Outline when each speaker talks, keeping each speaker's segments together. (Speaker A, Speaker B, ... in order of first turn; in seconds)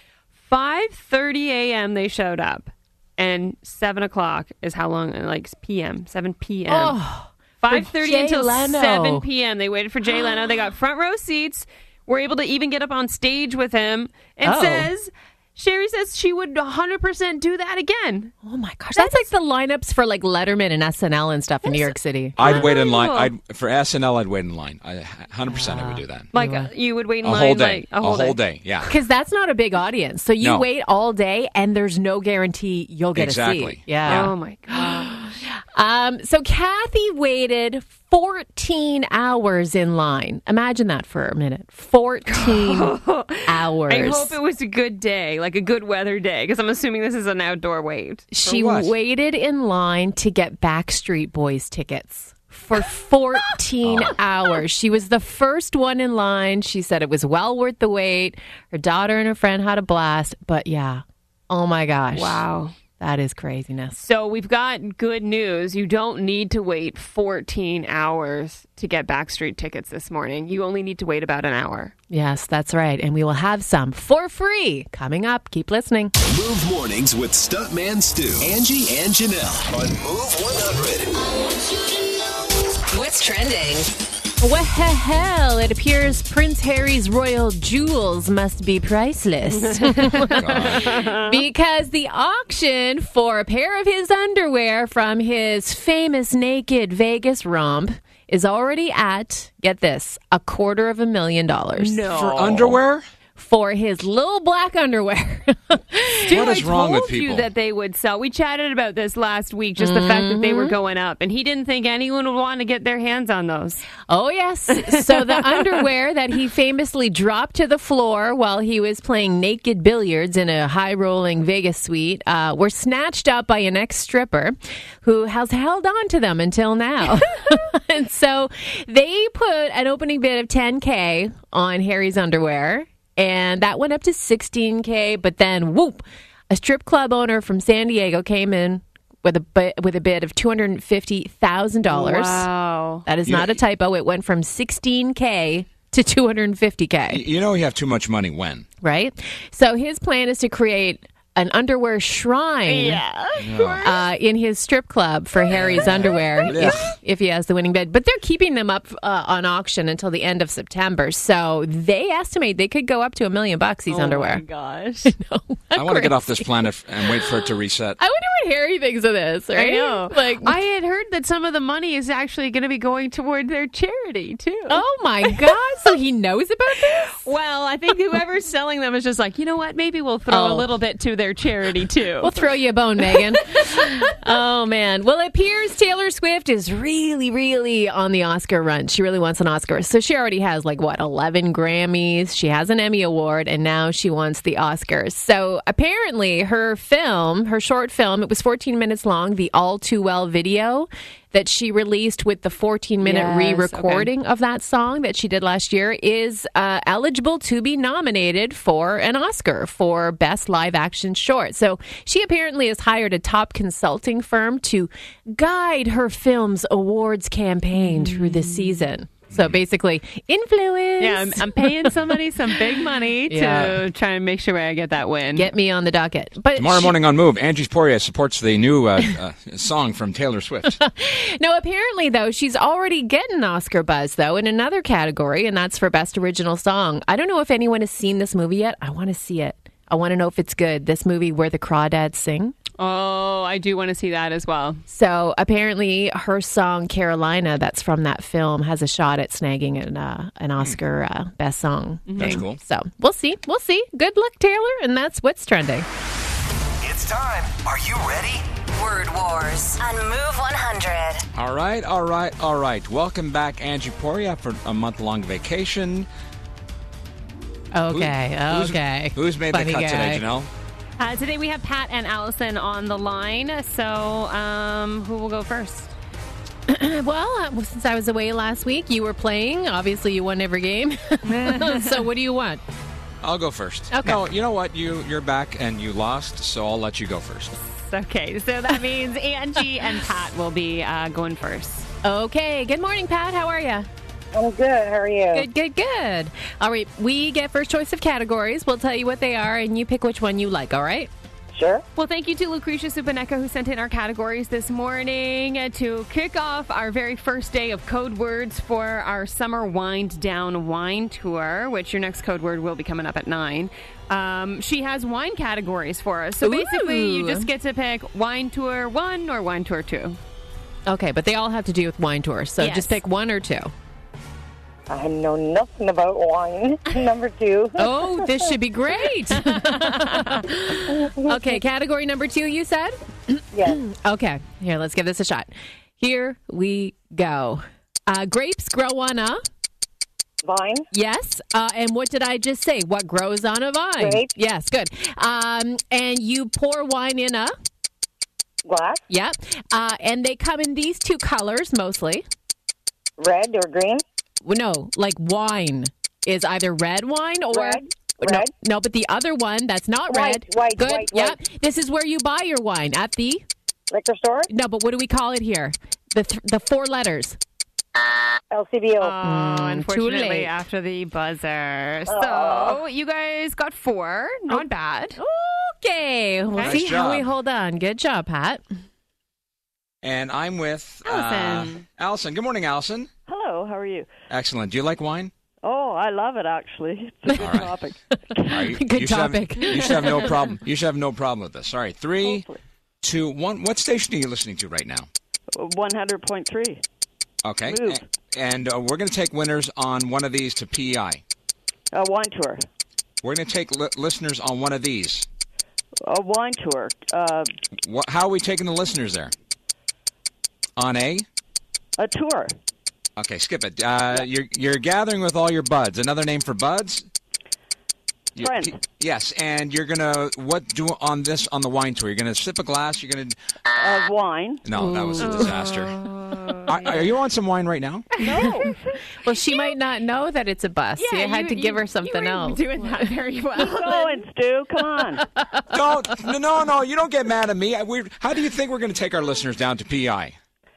Speaker A: 0.4-7.0, 7.6-18.3, 19.0-19.3, 21.6-23.3, 26.3-28.4, 34.0-35.3, 42.3-48.3, 62.1-62.8, 64.0-71.9, 89.5-91.4, 101.8-102.8, 106.3-113.9, 114.7-115.8, 141.9-143.1, 152.7-154.1, 155.5-156.8, 163.9-165.1, 169.5-175.5, 177.1-182.4, 183.1-184.0, 203.0-204.1, 217.8-218.9, 221.0-225.5, 242.8-244.8, 252.1-252.4, 271.0-275.9, 281.3-282.1, 287.8-291.9, 302.0-320.2, 322.6-323.0, 329.4-330.4, 369.0-375.2, 381.1-381.9, 425.2-427.1, 431.0-434.3
Speaker B: 6.7-9.2, 14.4-14.9, 18.4-22.6, 25.5-26.7, 28.9-44.4, 48.3-62.4, 63.0-64.0, 72.1-76.1, 84.4-102.0, 103.4-106.4, 109.8-110.7, 114.1-142.5, 143.1-147.2, 148.8-153.0, 153.8-164.4, 165.1-166.5, 168.0-170.5, 174.7-177.2, 180.3-180.7, 182.2-221.9, 223.3-223.8, 225.3-226.9, 230.8-242.6, 244.9-255.9, 267.7-270.2, 276.7-282.6, 283.9-284.2, 292.0-293.9, 295.3-301.1, 316.4-317.5, 320.9-323.7, 327.8-339.4, 340.9-347.5, 349.1-352.2, 354.4-363.4, 364.5-367.4, 369.2-370.5, 375.2-378.6, 388.5-390.3, 424.8-425.5, 428.2-428.7, 429.2-432.9, 435.2-435.7
Speaker C: 22.4-26.3, 27.2-28.9, 30.4-30.7, 33.1-34.3, 48.5-48.9, 53.8-54.2, 90.4-91.0, 102.1-103.1, 106.3-107.5, 143.3-143.6, 147.1-148.7, 153.4-153.9, 155.5-156.9, 165.8-168.0, 226.6-230.8, 252.2-252.6, 261.4-266.1, 267.9-270.5, 283.2-287.6, 376.6-377.3, 380.0-383.1, 384.3-385.3, 387.4-387.8, 388.5-392.5, 393.0-395.1, 397.4-401.2, 403.2-405.3, 407.8-409.3, 410.8-411.3, 413.2-417.1, 418.4-423.4, 424.6-426.0, 426.7-428.1, 435.7-440.4
Speaker D: 76.2-81.1, 256.8-258.4
Speaker E: 81.3-82.4, 82.9-84.0, 258.7-261.2
Speaker F: 294.3-295.5, 301.5-301.8, 324.9-328.5, 330.9-331.6, 333.5-333.8, 340.4-340.9, 344.0-344.3, 348.6-349.0, 353.2-354.0, 357.5-358.5, 360.1-361.4, 363.9-364.5, 368.5-369.2, 372.1-372.8
Speaker G: 383.3-384.1, 385.6-388.6, 392.2-392.6, 395.5-396.8, 397.7-398.0, 401.9-402.7, 406.1-407.5, 412.0-412.6, 418.4-418.8, 423.7-424.7, 428.2-429.0, 433.6-435.3